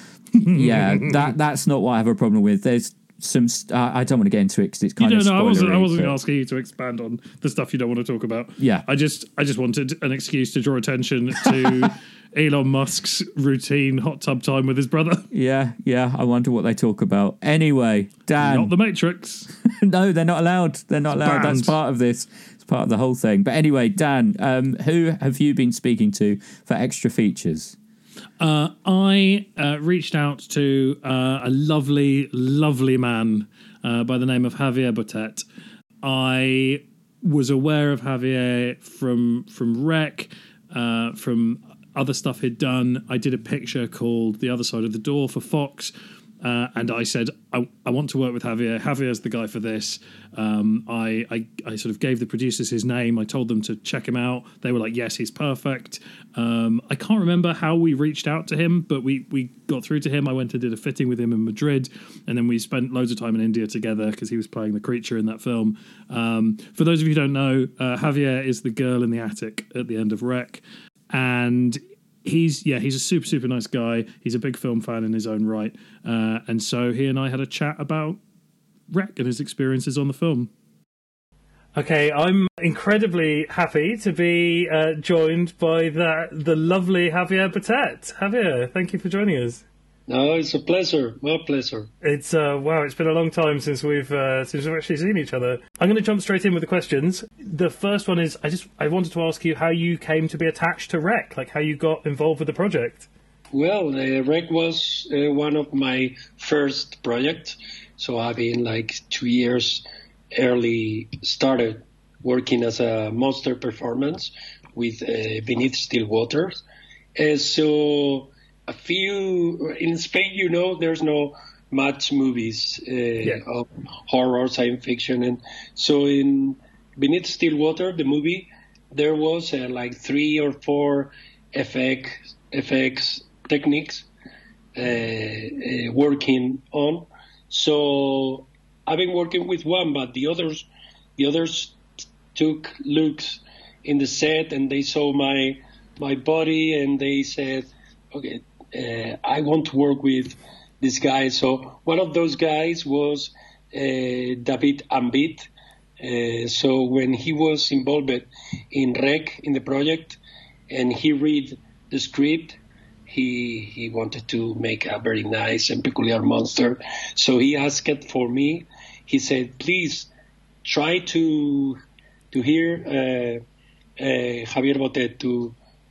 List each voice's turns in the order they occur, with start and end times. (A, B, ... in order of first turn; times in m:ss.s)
0:00.4-0:01.3 A
0:00.5-0:06.2 B
0:05.0-0:15.3 A
0:08.6-0:08.9 B
0:11.4-0:11.8 B
0:15.3-0:18.7 B
0:18.4-0:19.5 A
0:19.6-0:27.8 B
0:21.2-0:21.8 A
0:28.4-0:35.4 A
0:36.0-1:18.2 A
1:18.9-1:20.5 A
1:21.8-1:29.6 A
1:30.1-1:31.9 C
1:32.0-1:43.1 A
1:43.5-1:56.6 C
1:57.2-2:14.1 C
2:14.8-2:21.8 C
2:22.3-2:35.5 C
2:36.0-2:50.1 C
2:50.6-2:51.8 C
2:52.3-2:53.4 C
2:54.0-2:55.6 C